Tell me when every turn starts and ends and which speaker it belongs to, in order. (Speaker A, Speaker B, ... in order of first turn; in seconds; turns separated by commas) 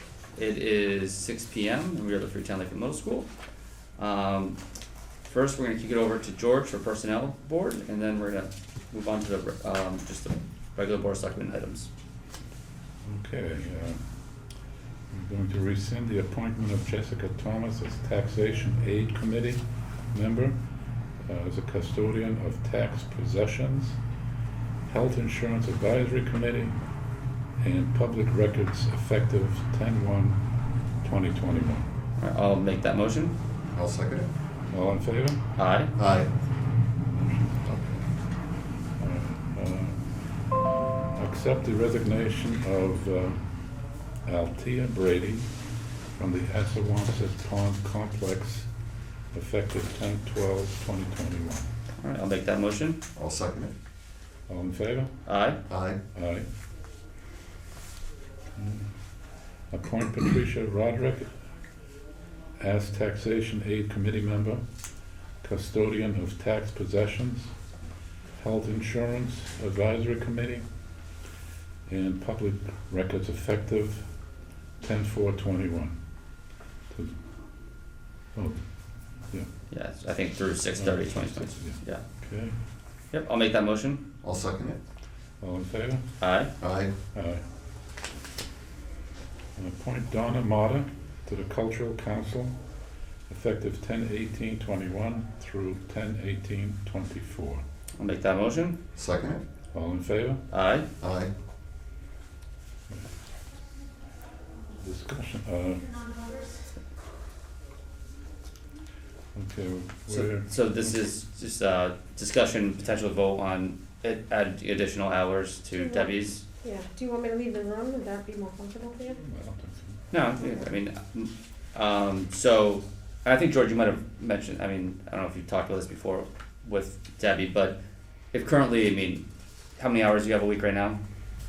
Speaker A: 0.3-3.3, Speaker A: 4.0-4.6, Speaker A: 5.3-11.9, Speaker B: 13.1-14.0, Speaker B: 15.1-20.6, Speaker B: 21.2-24.0, Speaker B: 24.9-26.8, Speaker B: 27.6-30.4, Speaker B: 31.0-31.9, Speaker A: 32.2-33.4, Speaker C: 33.8-34.3, Speaker B: 34.7-35.4, Speaker A: 35.6-35.9, Speaker C: 36.0-36.3, Speaker B: 37.1-37.8, Speaker B: 39.0-40.0, Speaker B: 41.1-43.4, Speaker B: 44.3-45.5, Speaker B: 46.2-48.7, Speaker B: 49.3-51.7, Speaker A: 52.0-53.0, Speaker C: 53.2-53.7, Speaker B: 54.5-55.1, Speaker A: 55.3-55.6, Speaker C: 55.7-56.0, Speaker B: 56.1-56.5, Speaker B: 58.6-58.9, Speaker B: 59.7-61.3, Speaker B: 62.6-64.6, Speaker B: 65.4-67.5, Speaker B: 68.4-70.7, Speaker B: 71.9-74.1, Speaker B: 74.8-75.9, Speaker B: 78.3-78.6, Speaker A: 79.7-82.0, Speaker B: 80.8-82.5, Speaker A: 83.1-84.0, Speaker C: 84.2-84.8, Speaker B: 85.4-86.0, Speaker A: 86.2-86.5, Speaker C: 86.6-86.9, Speaker B: 87.1-87.4, Speaker B: 89.6-92.5, Speaker B: 93.3-97.6, Speaker A: 98.0-98.8, Speaker C: 99.0-99.5, Speaker B: 99.7-100.4, Speaker A: 100.5-100.9, Speaker C: 101.0-101.3, Speaker B: 104.8-106.0, Speaker B: 109.3-110.5, Speaker A: 110.1-116.5, Speaker D: 115.8-119.2, Speaker B: 119.2-120.0, Speaker A: 120.1-127.8, Speaker A: 128.3-129.3, Speaker A: 129.8-131.0